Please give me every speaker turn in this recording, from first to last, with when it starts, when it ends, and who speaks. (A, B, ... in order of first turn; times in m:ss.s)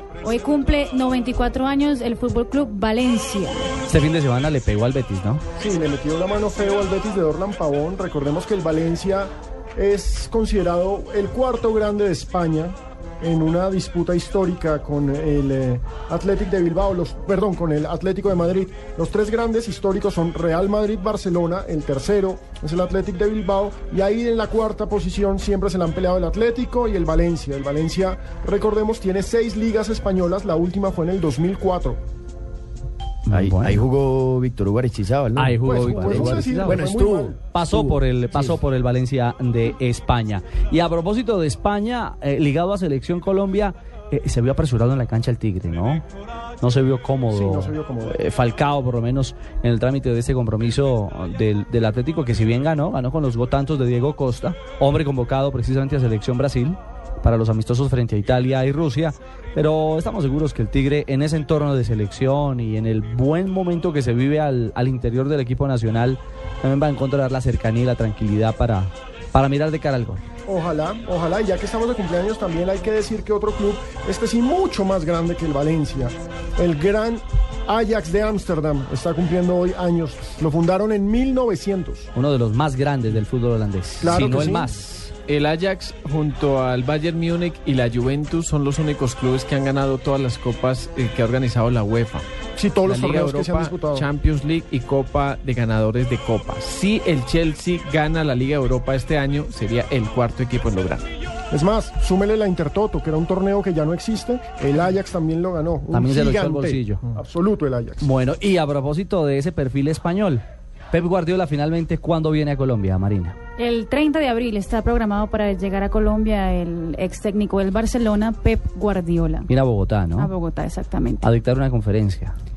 0:00.2-0:03.7 A
0:03.9-0:05.4 B
0:05.6-0:32.0 C
0:33.2-0:33.8 B
0:33.3-0:38.6 D
0:35.4-0:36.9 B
0:35.6-0:37.4 C
0:37.5-0:46.0 B
0:46.6-1:10.2 B
0:47.3-0:48.2 C
1:10.5-1:22.1 C
1:22.1-1:25.1 B
1:24.0-1:24.7 C
1:25.3-1:32.2 E
1:32.5-1:34.1 C
1:32.8-1:41.0 E
1:41.5-1:48.1 C
1:45.9-1:47.0 B
1:48.0-1:53.4 B
1:53.6-1:59.5 A
1:59.5-2:00.3 B
2:00.2-2:01.3 A
2:01.2-2:02.3 B